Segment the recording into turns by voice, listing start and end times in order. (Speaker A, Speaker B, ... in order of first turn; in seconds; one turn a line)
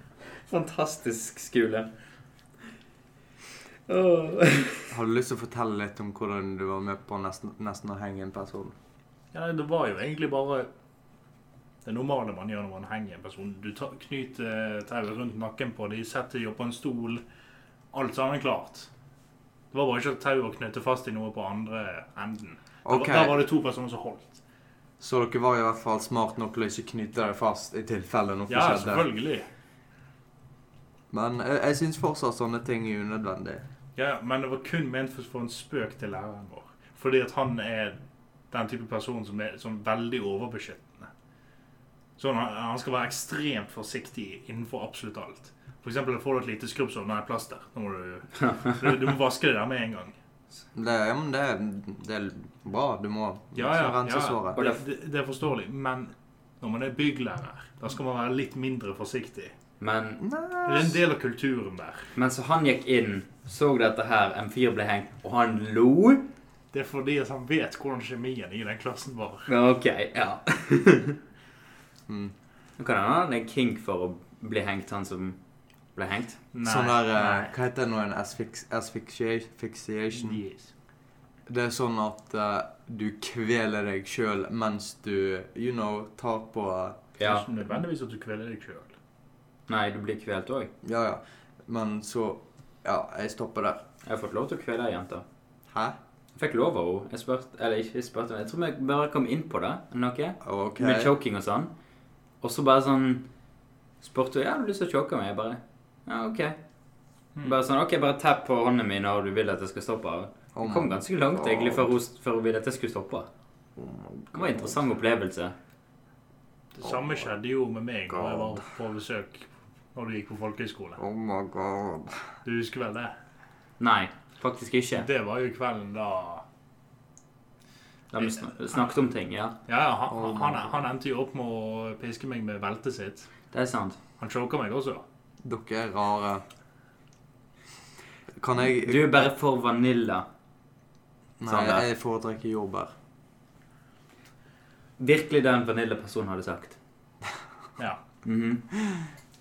Speaker A: 0.5-1.9
Speaker A: 3.9-4.9
Speaker B: 4.9-8.7
Speaker C: 9.3-10.7
Speaker C: 11.8-17.2
Speaker C: 17.9-18.9
Speaker C: 19.7-24.4
Speaker B: 22.8-23.4
Speaker B: 25.0-29.1
Speaker C: 28.5-29.5
Speaker B: 31.1-33.7
Speaker C: 33.9-38.0
Speaker C: 38.5-41.1
Speaker C: 42.2-50.1
Speaker B: 50.7-54.6
Speaker C: 53.5-59.5
Speaker A: 54.5-54.8
Speaker A: 59.8-60.2
Speaker B: 60.2-61.0
Speaker C: 60.6-62.1
Speaker A: 62.1-66.3
Speaker C: 66.7-69.5
Speaker A: 69.5-71.2
Speaker B: 72.1-72.3
Speaker A: 72.8-75.4
Speaker A: 75.9-76.4
Speaker C: 76.5-77.5
Speaker B: 76.6-80.4
Speaker C: 80.1-80.7
Speaker B: 81.5-87.0
Speaker A: 87.2-87.5
Speaker C: 87.2-89.0
Speaker A: 89.7-90.7
Speaker B: 90.8-93.8
Speaker A: 94.0-95.2
Speaker B: 95.7-96.0
Speaker A: 96.3-101.7
Speaker B: 100.4-101.1
Speaker A: 102.4-103.3
Speaker A: 104.0-106.6
Speaker C: 107.3-107.6
Speaker A: 107.4-113.3
Speaker B: 110.5-111.9
Speaker B: 113.8-114.8
Speaker A: 114.3-115.5
Speaker C: 116.7-121.0
Speaker B: 116.8-117.2
Speaker B: 118.1-118.7
Speaker B: 121.0-122.2
Speaker C: 122.4-123.1
Speaker A: 123.8-125.1
Speaker C: 124.9-126.4
Speaker A: 128.1-129.6
Speaker C: 128.2-128.9
Speaker C: 129.7-133.3
Speaker B: 130.1-130.7
Speaker A: 133.5-134.0
Speaker C: 134.2-135.0
Speaker B: 135.4-136.4
Speaker B: 138.4-139.3
Speaker A: 138.8-140.3
Speaker B: 141.4-142.9
Speaker A: 141.4-141.9
Speaker A: 145.0-146.8
Speaker C: 147.8-148.0
Speaker A: 148.2-148.7